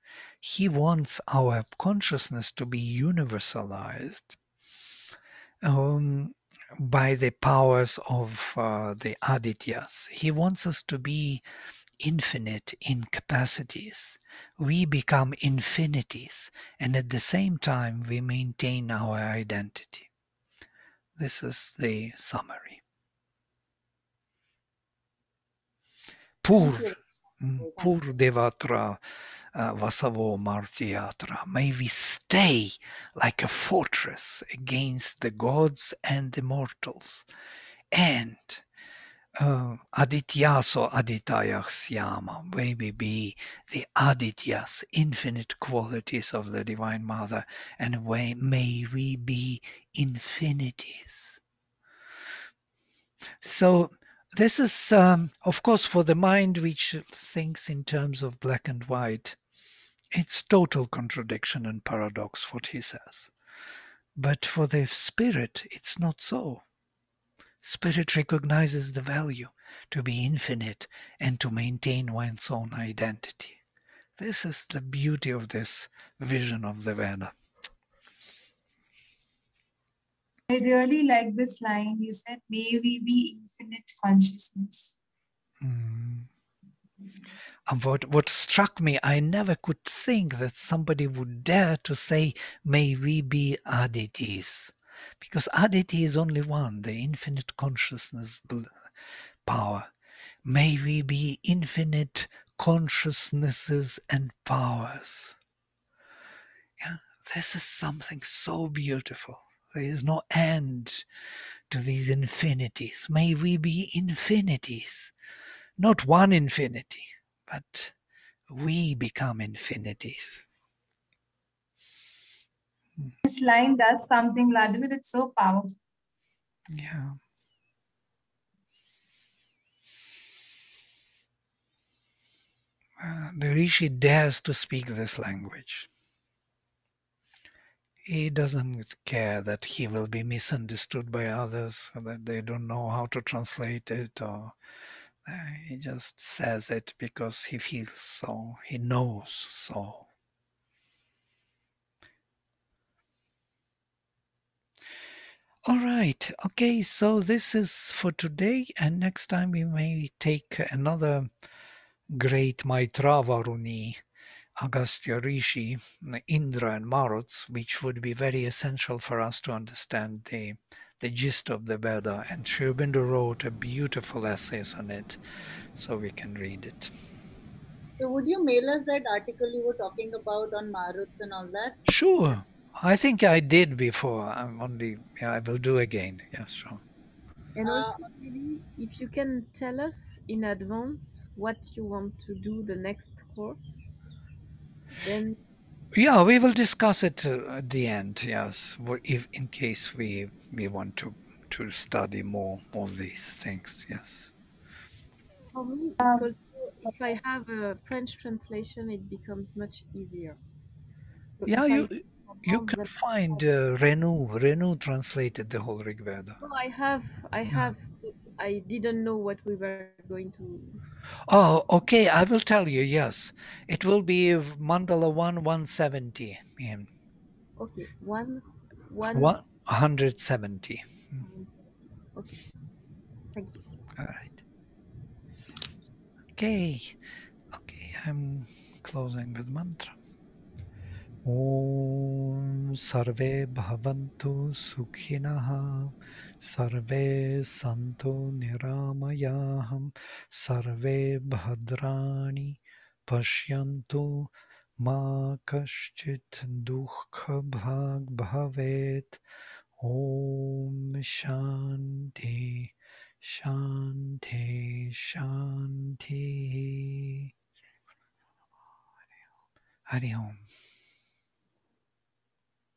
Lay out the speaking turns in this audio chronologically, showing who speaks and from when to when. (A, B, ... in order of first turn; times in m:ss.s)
0:00.4-0:04.4 A
0:05.6-0:11.4 A
0:12.0-0:20.1 A
0:21.2-0:22.8 A
0:26.4-0:29.0 A
0:26.5-0:27.0 B
0:27.6-0:28.0 B
0:29.5-0:37.3 A
0:37.9-0:38.6 A
0:39.4-0:51.4 A
0:53.4-0:59.4 A
1:00.1-1:03.3 A
1:04.2-1:06.6 A
1:07.6-1:13.6 A
1:14.2-1:17.3 A
1:20.5-1:25.0 C
1:25.6-1:26.3 A
1:27.7-1:38.8 A
1:39.4-1:39.9 A
1:40.4-1:45.3 A
1:46.8-1:51.0 A
1:51.7-1:55.1 A
1:55.8-1:57.9 A
1:58.5-2:00.5 A
2:03.2-2:05.8 C
2:06.7-2:07.2 A
2:13.0-2:15.9 A
2:18.0-2:24.5 A
2:25.2-2:30.1 A
2:35.6-2:41.3 A
2:42.1-2:44.0 A
2:44.6-2:55.2 A
2:55.8-2:56.9 A
2:58.0-3:01.8 B
3:01.9-3:06.8 A
3:07.6-3:13.9 D
3:07.6-3:08.0 B
3:15.0-3:15.4 D
3:15.9-3:24.3 A
3:25.5-3:30.4 D
3:26.0-3:26.3 C
3:31.3-3:33.4 D
3:31.4-3:36.4 A
3:36.4-3:40.8 D
3:41.3-3:46.9 A
3:47.6-3:49.4 D
3:49.1-3:51.2 A
3:51.2-3:52.5 D
3:53.3-3:53.6 D
3:54.0-3:54.4 A
3:56.4-3:57.0 A
3:57.5-4:00.0 A
4:01.2-4:19.2 A
4:19.8-4:27.3 A
4:29.9-4:30.5 A